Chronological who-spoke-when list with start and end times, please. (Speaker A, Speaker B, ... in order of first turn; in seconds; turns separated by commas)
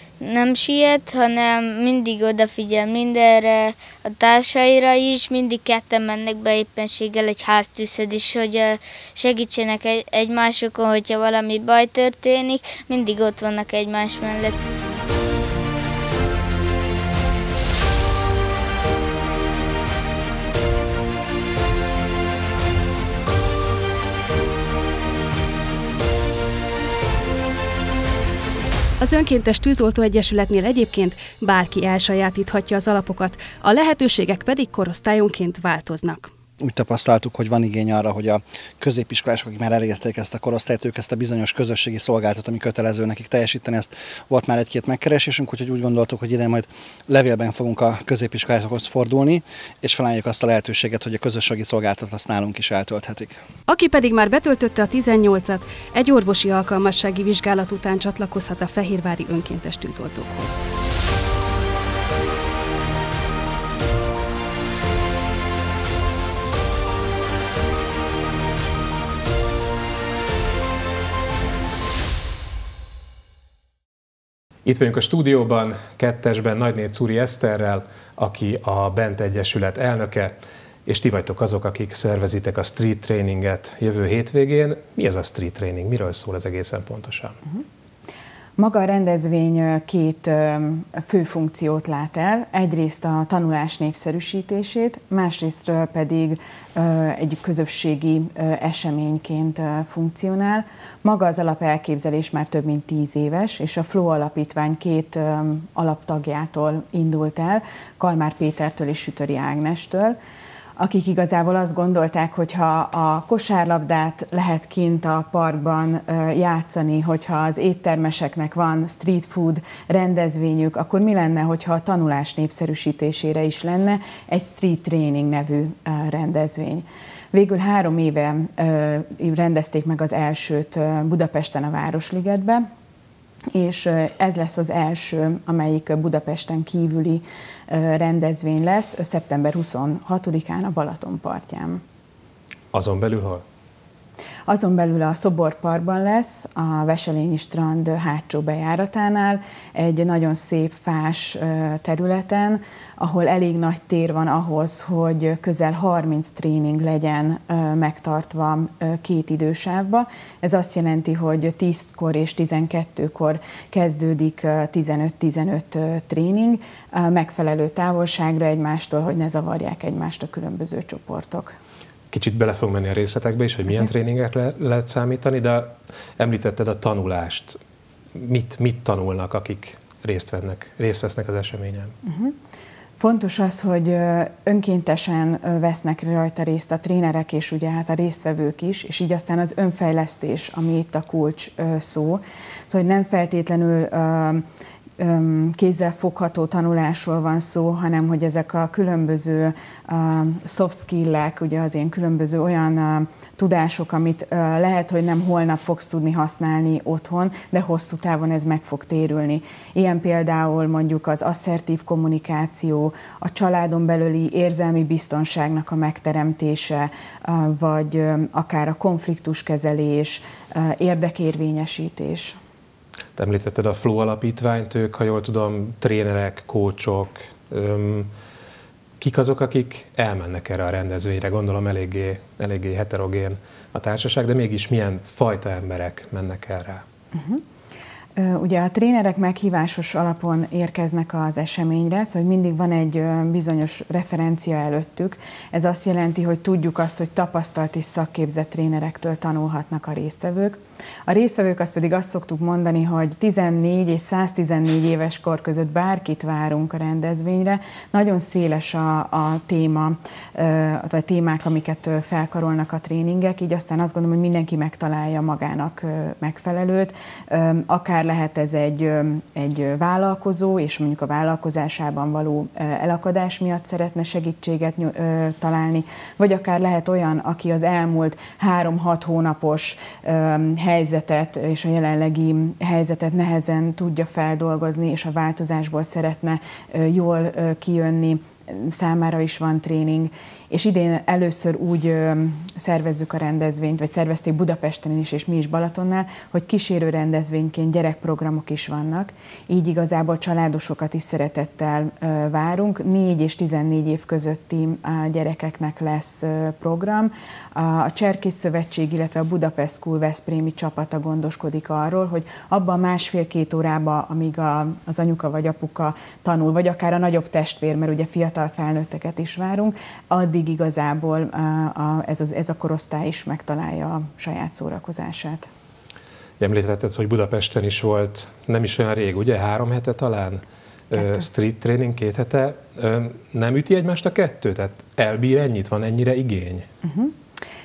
Speaker A: 0.2-14.6, Speaker B: 29.0-36.3, Speaker C: 36.6-53.4, Speaker B: 53.7-60.6, Speaker D: 74.7-87.4, Speaker E: 88.6-110.2, Speaker E: 110.8-132.7, Speaker E: 133.5-141.8, Speaker D: 142.7-143.4, Speaker E: 144.5-171.6, Speaker D: 172.1-177.6, Speaker D: 178.2-181.9, Speaker E: 182.0-182.4, Speaker E: 183.0-194.4, Speaker E: 195.0-222.4, Speaker D: 223.2-228.1, Speaker D: 229.0-236.8, Speaker E: 237.1-237.4, Speaker E: 238.2-325.5, Speaker D: 326.4-336.7, Speaker E: 331.0-331.2, Speaker E: 336.8-337.1